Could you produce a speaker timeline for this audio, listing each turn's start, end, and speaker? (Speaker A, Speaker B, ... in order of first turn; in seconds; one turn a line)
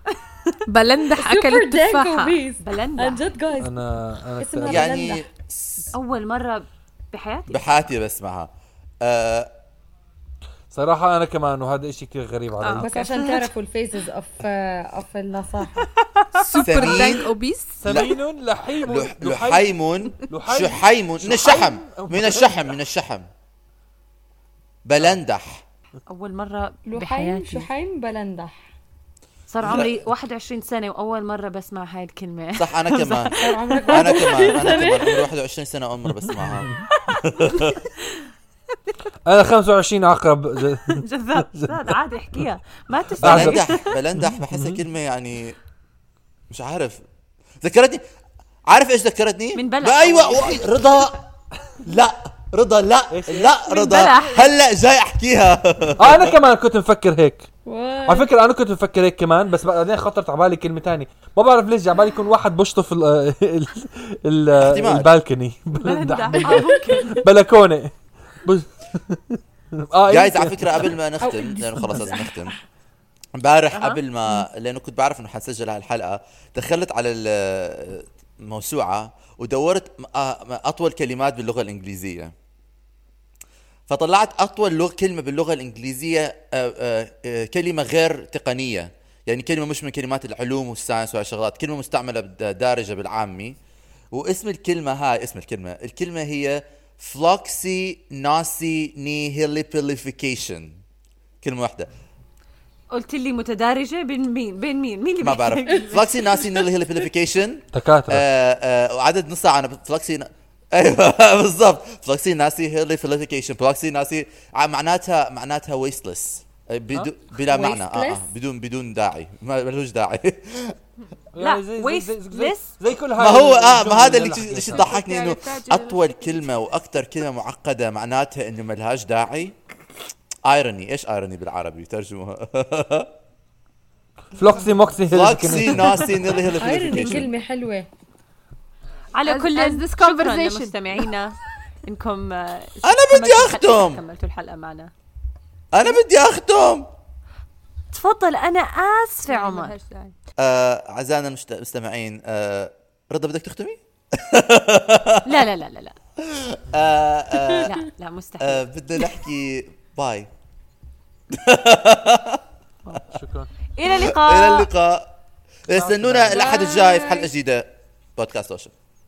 Speaker A: 0.1-0.6
Speaker B: 0.7-2.4
Speaker C: 1.1-5.2
Speaker A: 2.6-3.2
Speaker D: 3.6-5.2
Speaker E: 4.6-5.9
Speaker A: 5.9-7.7
Speaker E: 7.5-8.5
Speaker E: 9.0-9.5
Speaker D: 10.7-13.2
Speaker A: 12.6-13.4
Speaker C: 12.8-15.9
Speaker A: 16.0-16.6
Speaker B: 16.3-17.8
Speaker E: 16.6-17.3
Speaker D: 17.8-19.7
Speaker E: 17.9-18.2
Speaker E: 18.8-23.3
Speaker D: 20.3-22.7
Speaker E: 24.8-25.6
Speaker A: 26.1-27.7
Speaker C: 26.9-28.7
Speaker A: 29.5-34.7
Speaker E: 29.6-29.9
Speaker E: 32.5-33.4
Speaker C: 33.3-35.3
Speaker E: 33.9-36.7
Speaker D: 36.2-36.8
Speaker A: 37.0-38.2
Speaker E: 37.3-37.8
Speaker D: 39.2-42.0
Speaker A: 40.9-43.9
Speaker D: 43.2-43.6
Speaker E: 43.2-45.6
Speaker D: 44.2-44.8
Speaker E: 46.5-47.0
Speaker E: 47.6-48.0
Speaker E: 48.7-51.2
Speaker A: 49.5-50.8
Speaker E: 51.8-56.4
Speaker D: 53.1-53.5
Speaker A: 53.6-54.5
Speaker D: 56.0-57.5
Speaker C: 57.6-58.3
Speaker D: 58.0-71.0
Speaker E: 64.6-65.1
Speaker A: 65.7-67.2
Speaker C: 66.4-67.2
Speaker E: 70.1-72.5
Speaker C: 71.2-72.5
Speaker E: 73.3-82.3
Speaker A: 73.7-74.0
Speaker E: 83.9-93.6
Speaker E: 94.1-100.8
Speaker E: 101.4-101.9
Speaker A: 102.9-106.5
Speaker E: 105.2-120.8
Speaker D: 107.7-108.2
Speaker C: 117.4-118.2
Speaker D: 121.3-124.9
Speaker A: 121.4-122.7
Speaker E: 123.2-129.6
Speaker B: 124.6-126.5
Speaker E: 130.4-133.1
Speaker D: 134.3-136.3
Speaker E: 135.1-137.3
Speaker C: 136.5-137.9
Speaker A: 139.1-144.9
Speaker B: 139.2-141.0
Speaker E: 142.8-144.0
Speaker E: 145.7-146.9
Speaker A: 147.9-149.7
Speaker B: 149.3-150.1
Speaker E: 150.4-155.3
Speaker A: 155.2-155.9
Speaker E: 156.2-157.7
Speaker A: 157.6-158.6
Speaker E: 158.4-160.3
Speaker E: 161.3-162.4
Speaker D: 163.1-163.5
Speaker A: 163.8-164.7
Speaker E: 163.8-165.1
Speaker E: 165.7-168.7
Speaker D: 165.7-166.5
Speaker C: 166.3-167.3